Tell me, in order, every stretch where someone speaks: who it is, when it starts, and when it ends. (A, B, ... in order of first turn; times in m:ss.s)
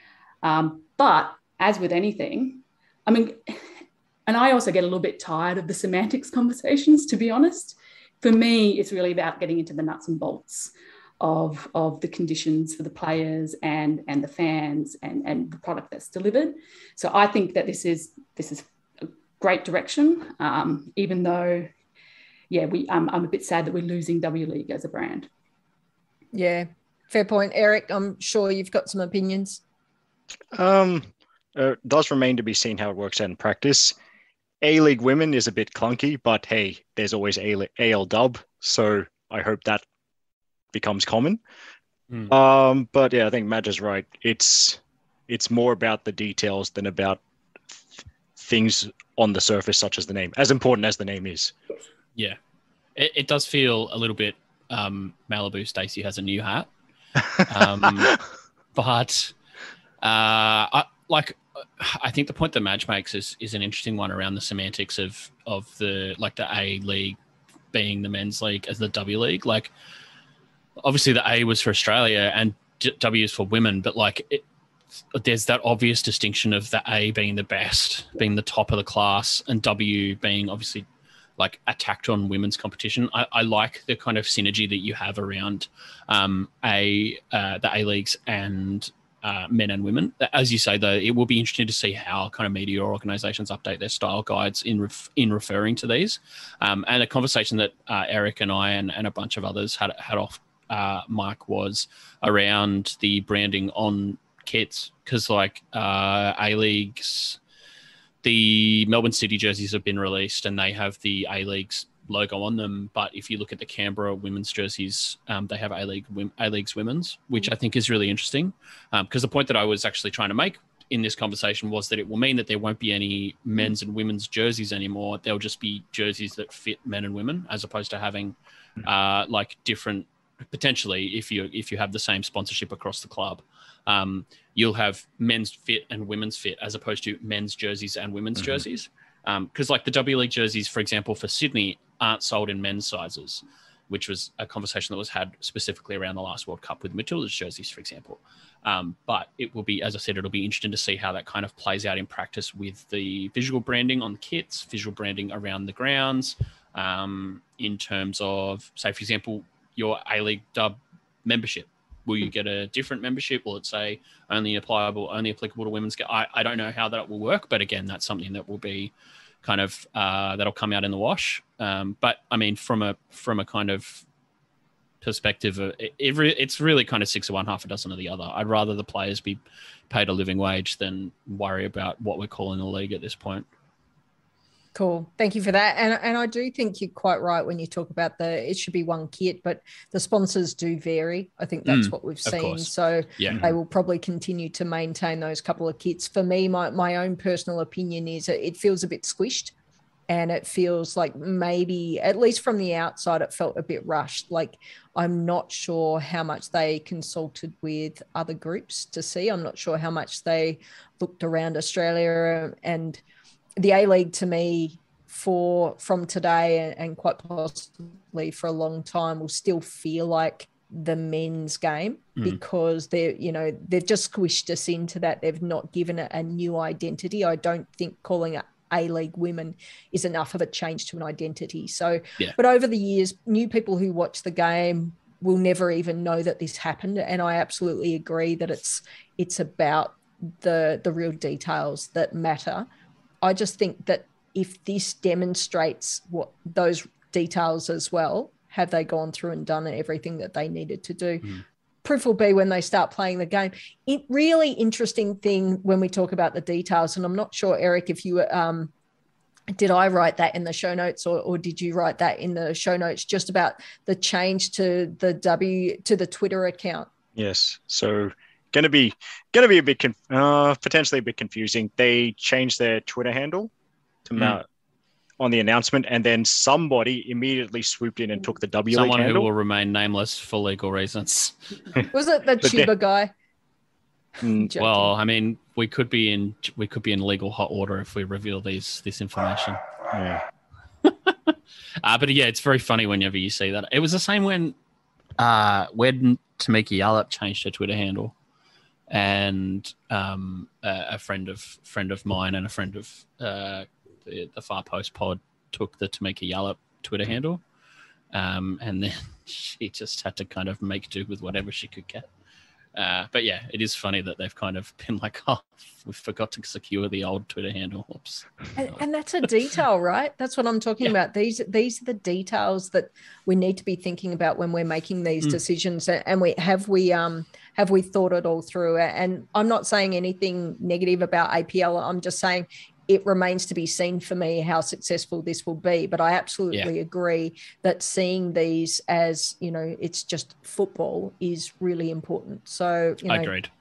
0:00.4-0:03.6 A
0:04.2-0:21.7 A
0:22.5-0:25.3 A
0:26.3-0:29.6 B
0:30.5-0:33.9 C
0:34.6-0:39.8 C
0:40.7-0:41.4 C
0:42.3-0:47.2 C
0:48.4-0:51.5 C
0:53.0-0:56.7 D
0:57.4-0:58.2 D
0:58.7-0:59.3 D
1:00.0-1:07.2 D
1:07.7-1:09.7 D
1:10.8-1:14.4 D
1:15.1-1:20.8 D
1:21.4-1:47.4 D
1:48.2-2:48.9 D
2:49.4-2:54.0 D
2:55.0-3:03.4 D
3:04.7-3:19.5 B
3:11.6-3:13.5 D
3:20.1-3:33.0 B
3:33.6-4:02.7 B
4:03.2-4:18.7 B
4:19.5-4:26.9 B
4:27.2-4:33.5 C
4:34.0-4:34.4 C
4:35.2-4:39.3 C
4:38.7-4:41.4 D
4:41.9-4:43.1 B
4:42.4-4:42.7 C
4:44.2-4:44.5 C
4:44.4-4:44.9 B
4:44.6-4:49.6 D
4:49.9-4:50.2 C
4:50.8-4:54.6 D
4:55.2-4:58.1 D
4:58.9-5:07.4 D
5:08.1-5:12.1 D
5:12.7-5:18.8 D
5:18.6-5:43.3 B
5:43.1-5:43.5 D